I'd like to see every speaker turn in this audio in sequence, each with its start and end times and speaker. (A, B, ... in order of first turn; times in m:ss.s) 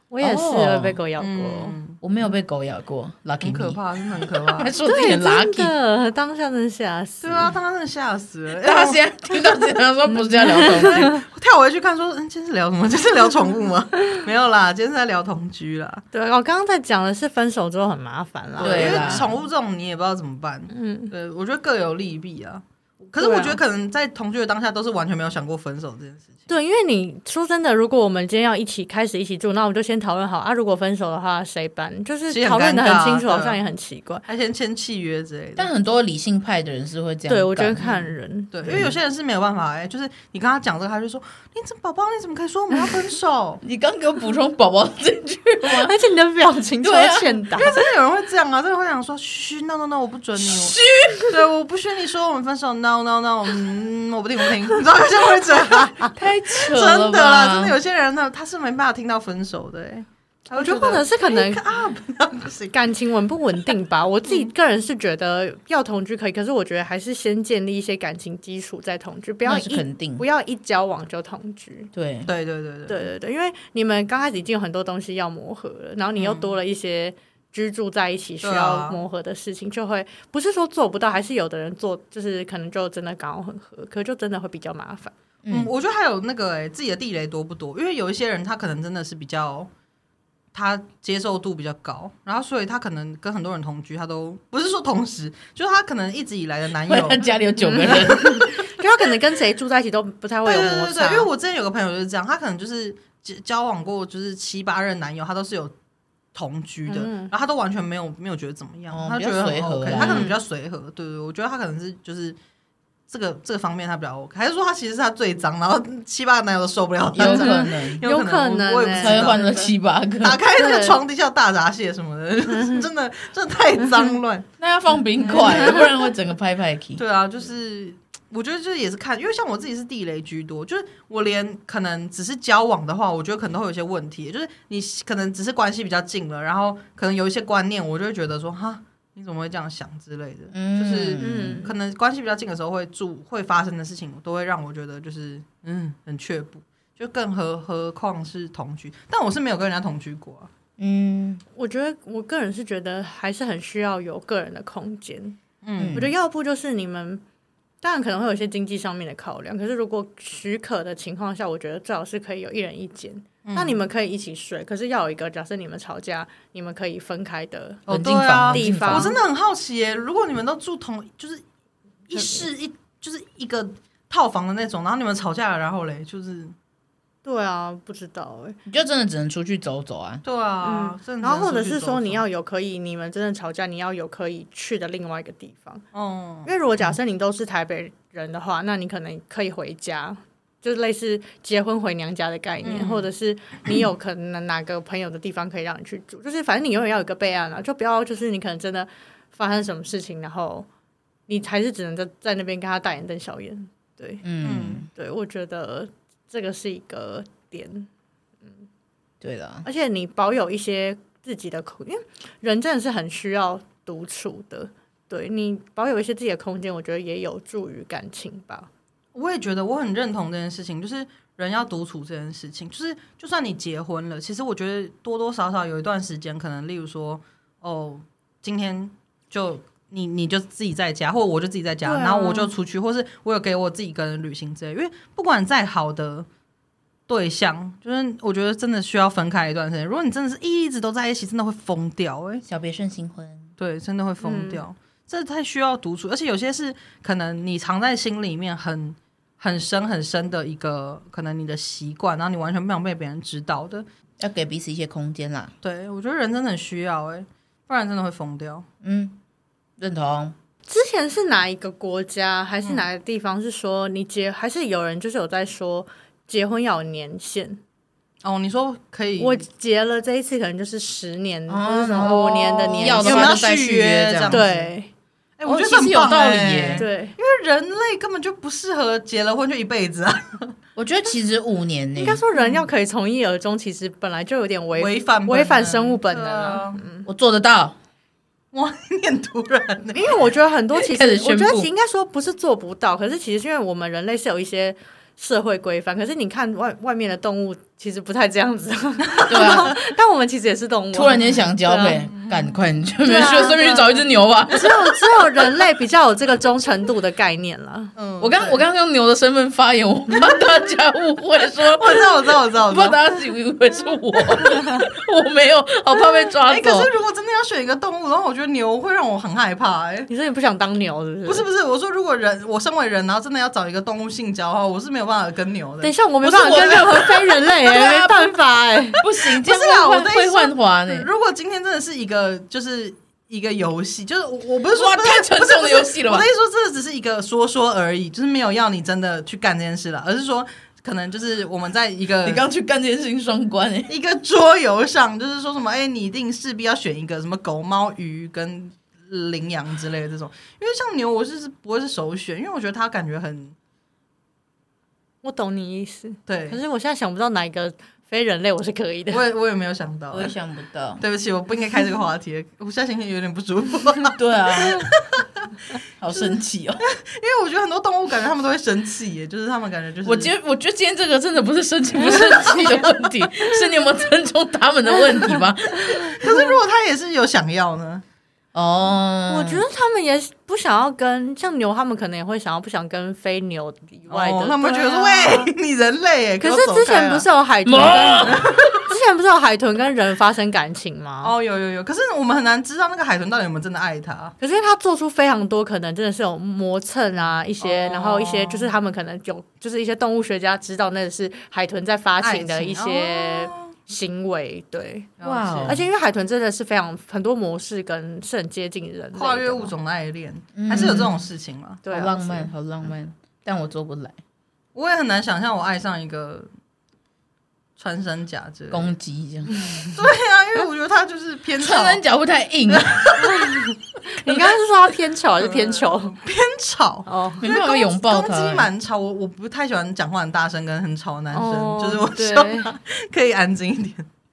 0:00.1-0:01.8 A
0:00.2-0:01.0 B
0:01.2-0:02.0 C
0:02.0-0:05.7 B
0:03.4-0:04.7 C
0:04.8-0:07.5 A
0:07.2-0:09.0 C
0:08.6-0:11.2 B
0:10.1-0:11.2 A
0:10.7-0:16.0 C
0:16.1-0:19.3 A
0:18.6-0:26.4 C
0:18.6-0:19.3 B
0:20.7-0:21.1 A
0:23.2-0:23.6 A
0:26.5-0:34.2 A
0:32.3-0:33.6 C
0:34.2-0:35.7 C
0:35.6-0:38.0 B
0:37.3-0:38.5 A
0:38.5-0:43.6 C
0:38.6-0:39.0 B
0:43.6-0:45.9 B
0:45.6-0:47.8 A
0:46.8-0:47.4 B
0:47.6-1:02.7 C
0:50.4-0:51.2 B
0:56.2-0:57.8 B
1:00.5-1:01.6 A
1:02.7-1:11.9 A
1:09.4-1:10.2 B
1:11.9-1:12.3 B
1:12.2-1:13.0 C
1:12.9-1:25.1 A
1:16.2-1:16.5 C
1:18.4-1:19.0 C
1:25.4-1:25.7 B
1:25.5-1:29.7 C
1:30.5-1:38.2 C
1:36.9-1:38.5 B
1:37.6-1:41.3 A
1:40.4-1:45.7 C
1:46.3-1:52.4 C
1:46.9-1:47.3 A
1:48.9-1:50.3 B
1:49.9-1:50.4 A
1:53.1-1:59.4 C
1:57.1-1:58.0 B
1:57.2-1:59.7 A
1:59.0-2:00.4 B
2:00.2-2:04.5 C
2:00.5-2:01.0 A
2:04.6-2:07.0 B
2:05.2-2:06.0 C
2:07.0-2:30.5 C
2:20.5-2:21.6 B
2:21.2-2:21.8 A
2:30.8-2:31.4 B
2:31.6-2:35.4 A
2:35.6-2:36.1 C
2:35.8-2:36.1 B
2:35.9-2:37.2 A
2:37.8-2:47.8 A
2:43.4-2:43.8 C
2:47.9-2:51.4 C
2:47.9-2:49.1 B
2:48.5-2:49.2 A
2:52.1-2:56.5 C
2:52.2-2:52.4 A
2:57.2-2:58.6 A
2:58.6-3:00.2 B
3:00.2-3:02.2 C
3:00.6-3:05.8 A
3:05.9-3:06.5 C
3:06.4-3:20.7 A
3:12.6-3:13.1 C
3:21.3-3:24.2 A
3:24.2-3:24.9 B
3:24.4-3:24.9 C
3:24.9-3:27.9 A
3:29.2-3:29.6 B
3:29.6-3:38.7 A
3:39.1-3:56.3 C
3:51.8-3:52.5 A
3:57.1-4:02.4 C
4:02.4-4:03.5 B
4:03.6-4:13.8 C
4:04.2-4:04.6 A
4:14.2-4:15.5 B
4:15.6-4:18.6 C
4:18.8-4:19.2 B
4:19.8-4:20.3 B
4:20.7-4:27.6 A
4:22.6-4:22.9 C
4:28.2-4:29.4 C
4:29.2-4:33.5 A
4:31.5-4:34.6 B
4:32.7-4:34.5 C
4:34.3-4:34.9 A
4:35.4-4:40.5 C
4:35.4-4:36.9 B
4:36.8-4:37.2 A
4:40.8-4:42.2 B
4:42.0-4:47.1 A
4:42.4-4:42.6 C
4:44.7-4:46.8 C
4:47.0-4:47.8 B
4:48.5-4:50.2 C
4:49.9-5:02.0 A
4:50.8-4:51.7 B
4:59.1-4:59.7 C
4:59.3-4:59.7 B
5:00.9-5:05.0 B
5:02.1-5:02.6 C
5:03.0-5:07.9 A
5:08.0-5:08.6 C
5:08.2-5:16.9 B
5:11.6-5:13.0 C
5:16.4-5:20.1 C
5:20.1-5:21.4 A
5:21.2-5:27.4 C
5:25.8-5:29.0 A
5:26.2-5:27.1 B
5:27.6-5:28.4 B
5:29.0-5:31.1 B
5:29.2-5:42.4 C
5:34.7-5:36.3 B
5:42.2-5:43.9 B
5:43.9-5:53.5 C
5:55.2-5:59.2 A
5:56.3-5:56.6 C
5:59.1-6:00.3 C
6:00.1-6:01.0 B
6:01.0-6:05.4 C
6:04.2-6:04.9 B
6:06.0-6:06.8 B
6:06.1-6:10.3 C
6:10.0-6:16.2 B
6:12.0-6:12.7 A
6:16.1-6:16.4 A
6:16.2-6:18.0 C
6:18.5-6:19.6 B
6:19.3-6:25.5 A
6:24.1-6:27.3 C
6:26.4-6:31.3 A
6:27.6-6:28.8 B
6:28.2-6:28.6 C
6:31.2-6:34.3 C
6:34.4-6:45.1 A
6:37.6-6:38.7 C
6:42.2-6:43.7 C
6:45.2-6:45.8 C
6:45.2-6:45.8 B
6:45.6-6:49.7 A
6:49.1-6:51.8 C
6:50.6-6:51.2 B
6:51.8-6:52.5 A
6:51.9-6:54.2 B
6:54.7-6:56.5 C
6:57.8-6:58.9 C
6:58.7-6:59.6 B
6:59.5-6:59.9 A
6:59.8-7:02.0 C
7:01.6-7:03.2 B
7:02.7-7:03.6 C
7:03.2-7:06.2 A
7:05.4-7:14.1 C
7:07.0-7:07.4 A
7:07.4-7:08.7 B
7:11.3-7:12.7 A